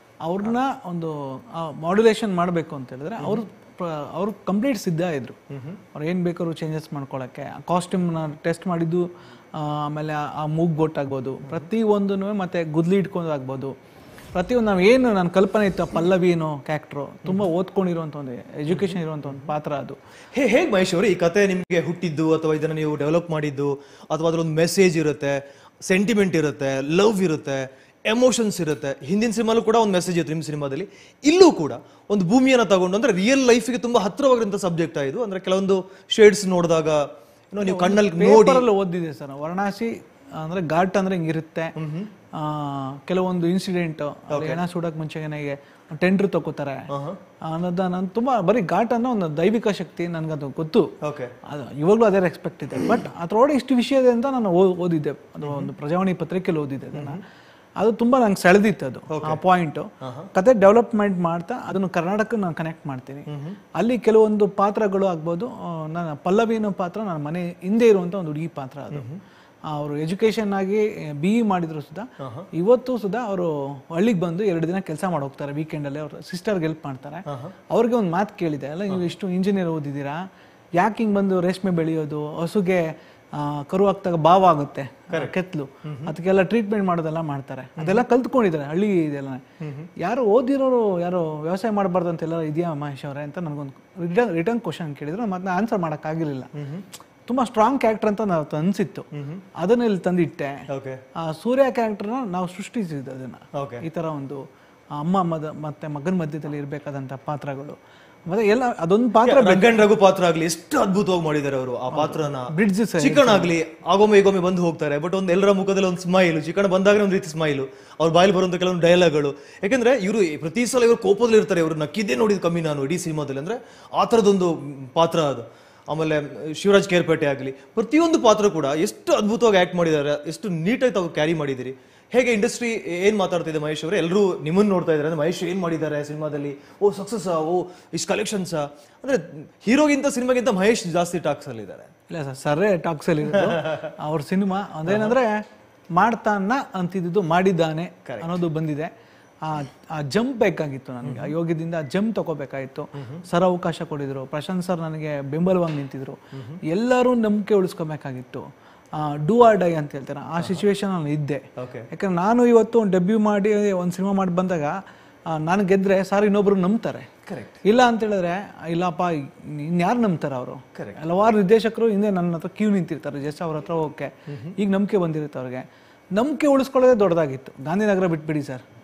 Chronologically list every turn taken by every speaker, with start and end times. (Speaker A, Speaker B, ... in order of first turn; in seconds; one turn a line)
Speaker A: 0.2-5.4
Speaker B: 5.5-5.8
Speaker A: 5.9-13.7
Speaker A: 14.3-20.0
Speaker B: 18.7-19.5
Speaker B: 20.3-37.0
Speaker B: 37.5-38.7
Speaker A: 37.6-41.7
Speaker B: 41.8-42.1
Speaker A: 42.4-46.8
Speaker B: 44.3-44.6
Speaker B: 46.9-47.2
Speaker A: 47.5-50.9
Speaker B: 51.0-51.3
Speaker A: 51.5-57.2
Speaker B: 55.4-55.7
Speaker B: 56.9-57.2
Speaker A: 57.8-69.0
Speaker B: 59.1-59.4
Speaker B: 60.0-60.3
Speaker B: 63.3-63.6
Speaker B: 68.9-69.2
Speaker A: 69.7-80.2
Speaker B: 72.2-72.5
Speaker B: 77.3-77.5
Speaker A: 80.8-89.4
Speaker B: 85.1-86.1
Speaker B: 87.8-88.0
Speaker B: 89.6-89.9
Speaker A: 90.0-96.5
Speaker B: 96.6-96.8
Speaker A: 97.2-100.6
Speaker B: 99.2-99.4
Speaker B: 100.7-101.0
Speaker A: 101.2-104.4
Speaker B: 103.6-103.8
Speaker A: 105.0-109.8
Speaker B: 109.2-141.9
Speaker A: 111.9-113.5
Speaker A: 142.1-145.4
Speaker B: 143.3-143.9
Speaker B: 144.9-145.1
Speaker A: 145.9-148.9
Speaker B: 148.0-148.3
Speaker A: 149.4-156.2
Speaker B: 151.0-151.3
Speaker B: 153.0-153.2
Speaker A: 156.7-158.4
Speaker A: 159.0-164.8
Speaker B: 160.4-160.6
Speaker B: 161.6-161.9
Speaker A: 165.4-167.1
Speaker B: 167.3-167.6
Speaker A: 167.6-178.6
Speaker B: 174.3-174.5